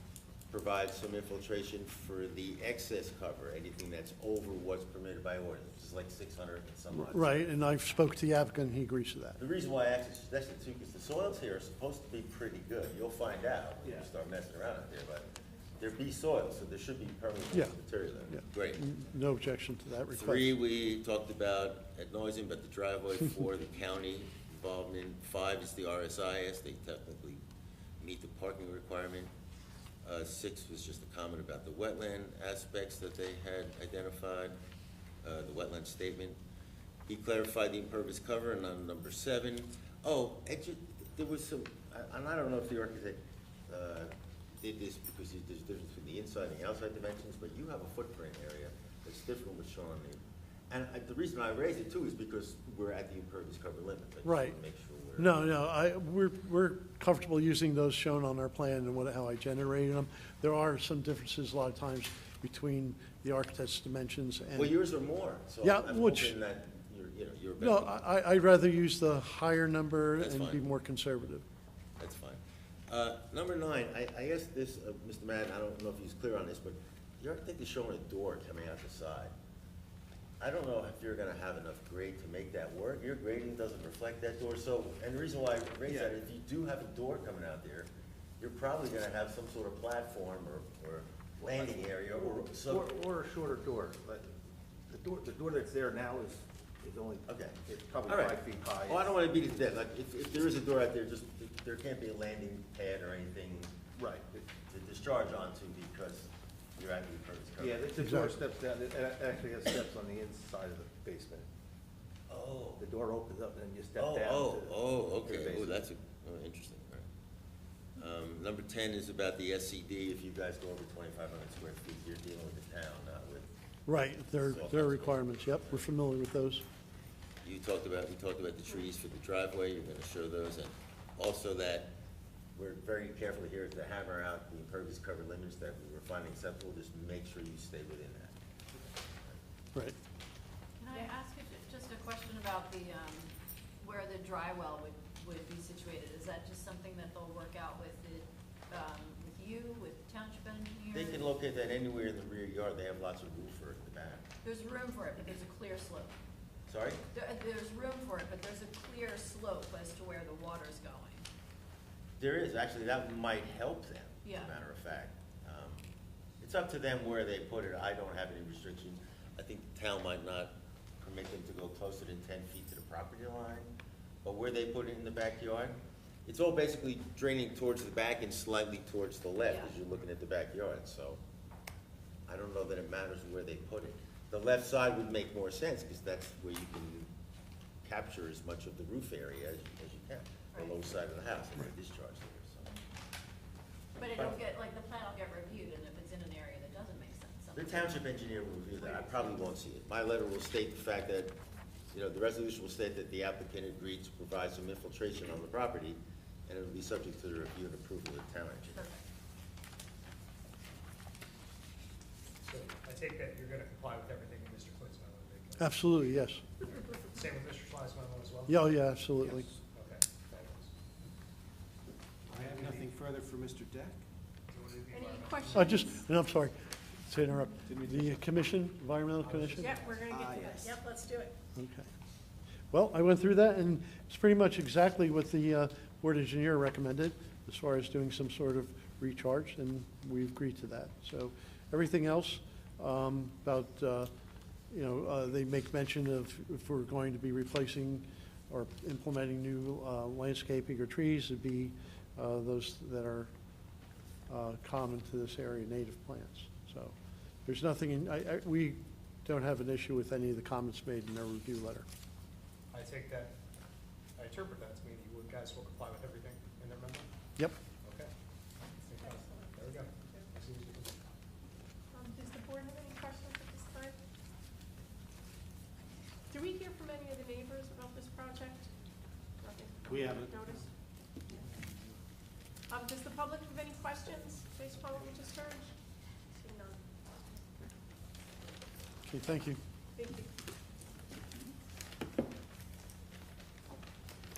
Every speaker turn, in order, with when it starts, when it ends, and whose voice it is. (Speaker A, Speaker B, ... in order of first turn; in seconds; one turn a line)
Speaker A: 0.5-7.5
Speaker B: 6.9-9.4
Speaker A: 9.4-15.2
Speaker A: 15.8-18.8
Speaker B: 17.5-17.8
Speaker B: 18.3-20.6
Speaker A: 20.1-27.4
Speaker A: 28.0-29.3
Speaker A: 30.0-34.6
Speaker A: 35.2-36.4
Speaker A: 37.1-55.5
Speaker B: 54.2-54.6
Speaker B: 55.2-64.8
Speaker A: 64.5-68.0
Speaker B: 65.6-66.4
Speaker B: 67.6-71.4
Speaker A: 70.2-70.6
Speaker A: 72.0-79.3
Speaker A: 80.4-87.9
Speaker C: 85.9-86.1
Speaker A: 88.4-92.8
Speaker C: 91.4-94.3
Speaker C: 94.9-99.2
Speaker A: 97.3-103.8
Speaker C: 104.0-104.4
Speaker A: 104.6-107.9
Speaker C: 107.6-111.5
Speaker B: 108.0-108.3
Speaker A: 112.3-112.8
Speaker C: 112.8-115.8
Speaker A: 114.0-117.1
Speaker A: 118.0-123.5
Speaker B: 123.9-126.6
Speaker A: 124.3-125.9
Speaker A: 127.4-131.9
Speaker A: 132.6-138.3
Speaker D: 140.8-151.2
Speaker A: 150.9-154.2
Speaker D: 154.4-156.2
Speaker A: 156.7-157.0
Speaker D: 157.1-161.3
Speaker A: 162.2-165.9
Speaker D: 164.2-164.5
Speaker A: 166.4-173.7
Speaker A: 174.2-181.2
Speaker D: 179.5-179.7
Speaker A: 182.3-187.1
Speaker A: 187.8-192.8
Speaker D: 194.0-198.0
Speaker A: 197.6-201.4
Speaker A: 201.9-208.8
Speaker D: 208.8-209.0
Speaker E: 212.4-215.8
Speaker B: 215.6-216.4
Speaker E: 217.0-218.7
Speaker B: 218.5-219.5
Speaker E: 219.7-220.7
Speaker E: 222.3-222.9
Speaker F: 222.3-224.0
Speaker E: 224.5-225.9
Speaker G: 224.9-226.1
Speaker B: 225.5-229.8
Speaker F: 227.7-228.1
Speaker G: 229.6-231.3
Speaker E: 229.6-229.9
Speaker F: 230.0-230.8
Speaker B: 231.6-231.9
Speaker B: 232.7-244.1
Speaker B: 244.7-253.3
Speaker B: 254.3-256.9
Speaker B: 257.5-261.9
Speaker E: 262.7-263.3
Speaker E: 264.2-267.1
Speaker E: 267.8-268.1
Speaker E: 268.8-271.1
Speaker G: 269.1-269.6
Speaker G: 271.9-274.0
Speaker G: 276.3-278.7
Speaker G: 279.4-280.7
Speaker G: 282.7-285.7
Speaker G: 286.4-286.8
Speaker B: 289.1-289.6
Speaker G: 290.0-290.3